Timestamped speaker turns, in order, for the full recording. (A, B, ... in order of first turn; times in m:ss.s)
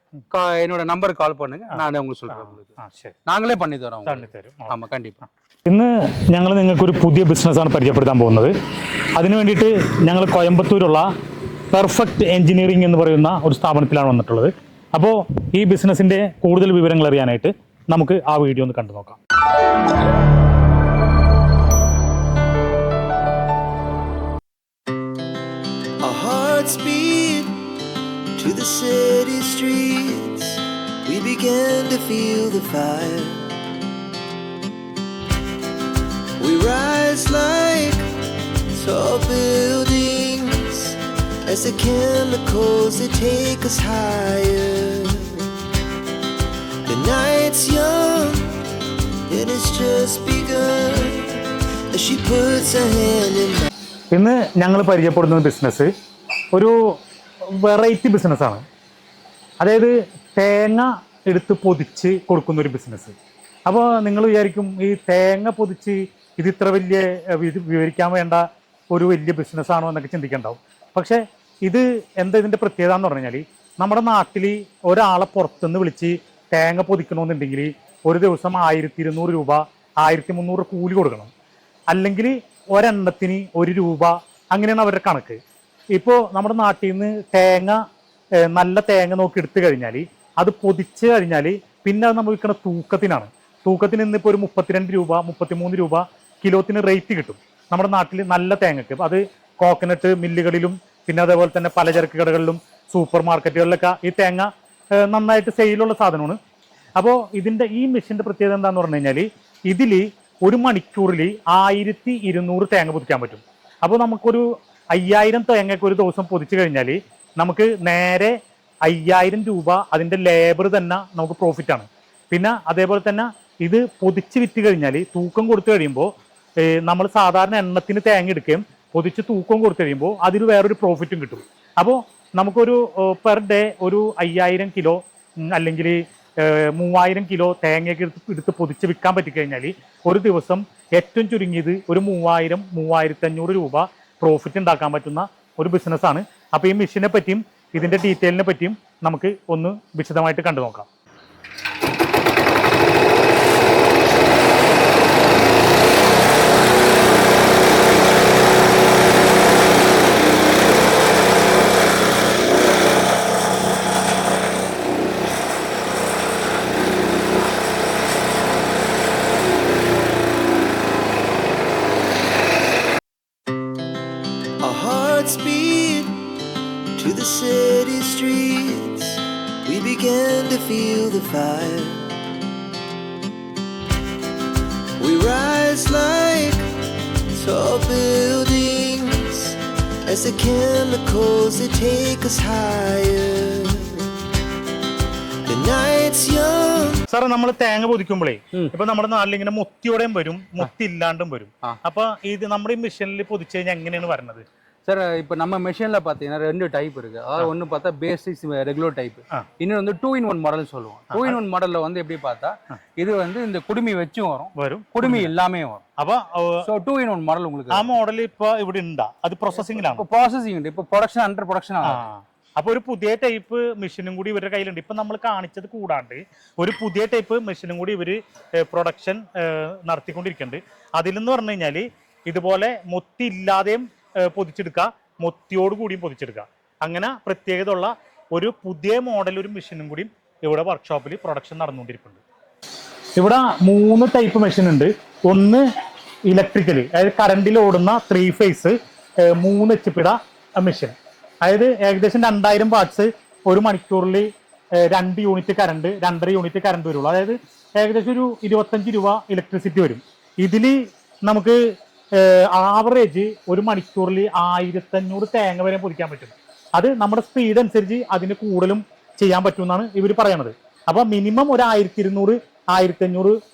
0:00.3-0:05.2 A
0:01.7-0:03.2 B
0:04.0-0:04.8 B
0:05.7-0:08.5 B
0:09.2-0:11.1 B
0:11.7-0:19.2 B
0:26.0-0:27.7 C
0:28.4-0:33.6 C
0:36.4-0:38.1 C
0:38.7-0:45.6 C
0:46.9-0:48.6 C
0:49.3-0:53.7 C
0:54.1-0:55.9 B
0:57.5-0:58.6 B
0:59.6-1:03.2 B
1:03.7-1:21.3 B
1:21.9-1:25.4 B
1:26.0-1:27.8 B
1:28.4-1:46.4 B
1:47.0-2:30.9 B
2:54.6-2:56.4 C
2:57.0-3:02.2 C
3:05.0-3:06.7 C
3:07.3-3:14.3 C
3:15.4-3:17.0 C
3:17.1-3:24.4 B
3:24.9-3:35.8 A
3:31.1-3:31.4 B
3:34.6-3:35.3 B
3:36.0-3:36.7 B
3:36.7-3:37.9 A
3:37.7-3:40.1 B
3:39.6-3:42.0 A
3:41.8-4:02.2 B
4:03.2-4:05.7 B
4:06.3-4:14.3 B
4:14.8-4:21.6 B
4:22.2-4:33.4 B